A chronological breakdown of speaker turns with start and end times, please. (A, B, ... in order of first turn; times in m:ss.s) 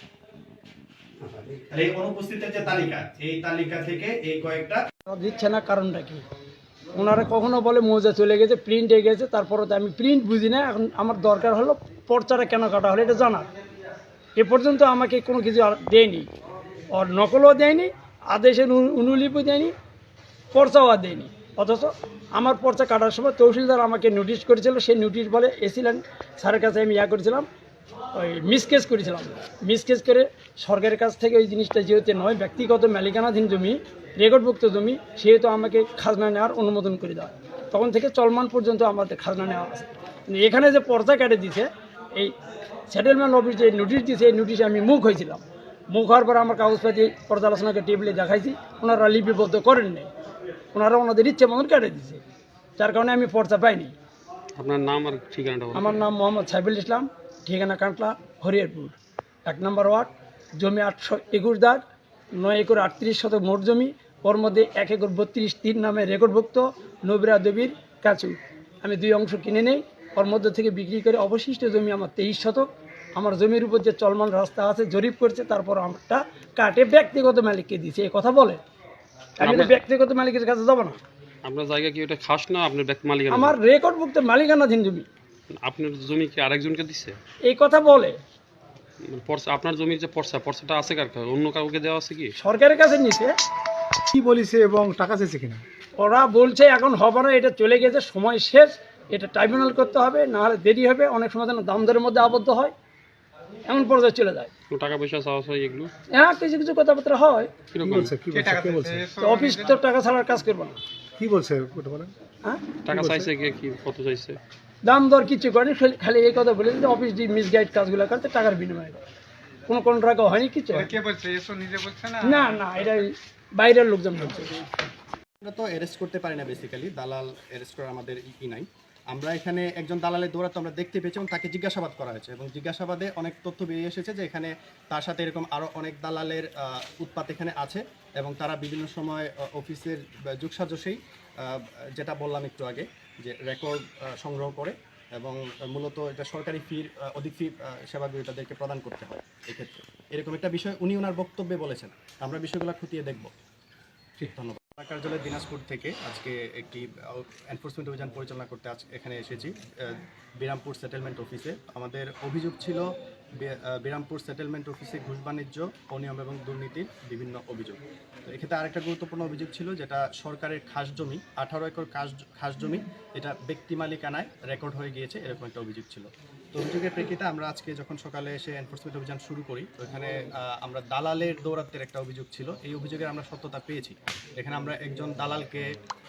0:01.2-0:04.8 A
0:05.1-0:06.2 B
0:07.0-0:13.5 B
0:14.4-0:16.3 B
0:16.9-0:19.7 B
0:20.5-0:27.5 B
0:28.1-0:42.3 B
0:42.9-0:50.1 B
0:50.7-0:52.2 B
0:52.8-0:53.9 B
0:54.6-0:56.0 C
0:55.8-0:59.0 B
0:59.5-1:18.6 B
1:19.4-1:21.0 B
1:19.4-1:19.7 C
1:21.4-1:23.6 C
1:23.3-1:25.1 B
1:25.5-1:27.2 C
1:27.4-1:28.2 B
1:29.1-1:32.3 C
1:32.4-1:33.4 B
1:34.1-1:35.6 D
1:36.0-1:42.7 B
1:43.7-1:44.5 B
1:44.7-1:45.9 C
1:46.1-1:47.5 B
1:47.7-1:48.1 C
1:47.8-1:49.1 D
1:48.3-1:49.8 E
1:49.2-1:50.8 B
1:51.2-1:52.1 D
1:52.4-1:52.7 B
1:52.9-1:54.4 C
1:52.9-1:53.3 D
1:54.8-1:59.0 B
1:59.7-2:00.9 B
2:00.8-2:02.7 E
2:02.2-2:04.7 B
2:05.4-2:33.3 A
2:34.2-3:05.7 A